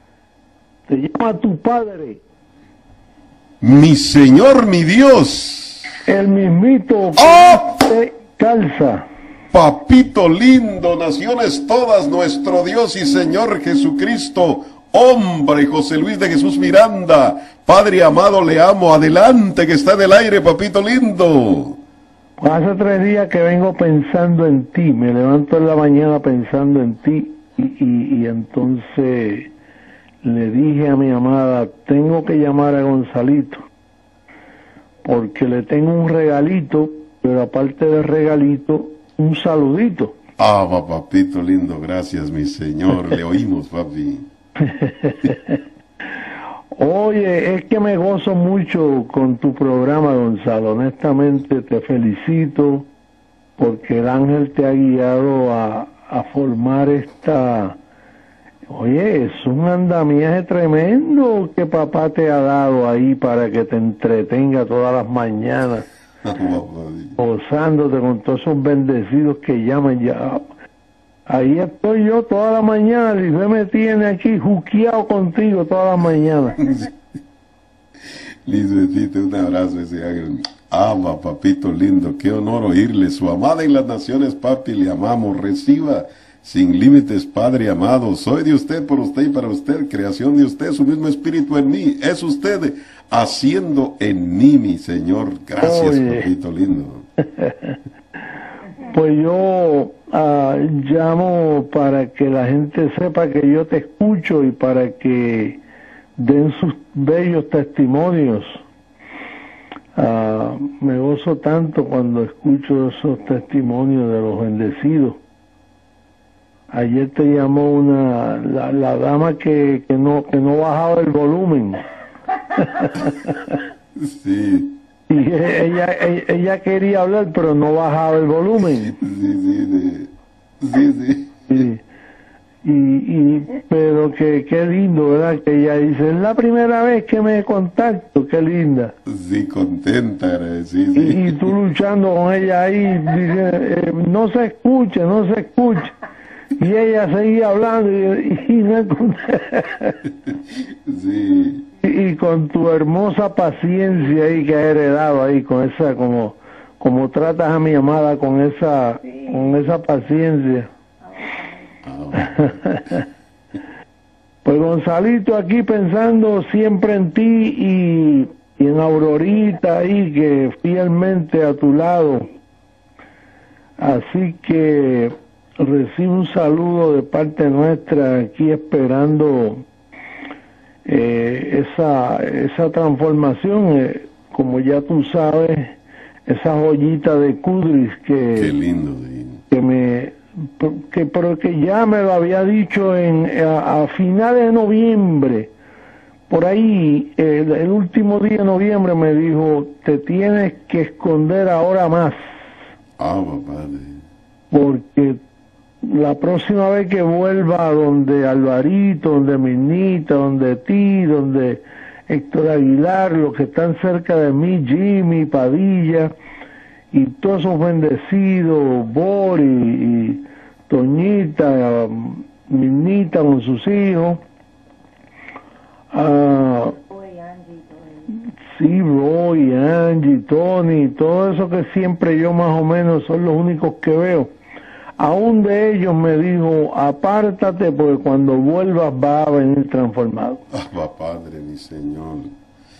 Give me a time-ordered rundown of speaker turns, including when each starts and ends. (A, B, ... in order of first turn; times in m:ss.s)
0:00.9-0:02.2 A
0:03.6-0:05.9 B
0:06.0-0:09.0 A
0:07.2-0:07.7 B
0:09.5-0:21.8 B
0:22.4-0:29.5 A
0:30.2-0:33.6 A
0:35.0-0:40.2 A
0:40.4-0:44.3 B
0:44.6-0:45.6 A
0:46.8-0:52.9 A
0:53.6-0:57.8 A
0:58.7-1:05.8 A
1:06.2-1:07.2 B
1:07.2-1:10.4 A
1:11.3-1:16.6 A
1:16.6-1:16.9 B
1:18.4-1:37.0 B
1:35.6-1:36.3 A
1:37.4-1:37.7 A
1:38.9-1:45.6 A
1:46.2-1:48.6 A
1:49.9-1:55.2 A
1:56.7-2:01.8 A
2:02.6-2:03.5 A
2:04.0-2:04.8 B
2:05.1-2:08.9 A
2:09.0-2:11.6 B
2:11.5-2:11.8 A
2:12.6-2:18.9 A
2:19.1-2:21.5 B
2:20.9-2:26.0 A
2:26.6-2:29.9 A
2:30.9-2:31.6 B
2:31.8-2:40.7 A
2:41.8-2:42.9 B
2:44.4-2:52.2 A
2:53.8-2:59.6 A
3:00.8-3:08.5 A
3:08.3-3:09.4 B
3:09.5-3:15.5 A
3:16.3-3:22.2 A
3:23.0-3:24.0 B
3:24.5-3:25.2 A
3:25.8-3:36.1 A
3:36.9-3:44.2 A
3:45.9-3:46.8 A
3:48.1-3:54.3 A
3:55.0-4:00.4 A
4:00.5-4:02.3 B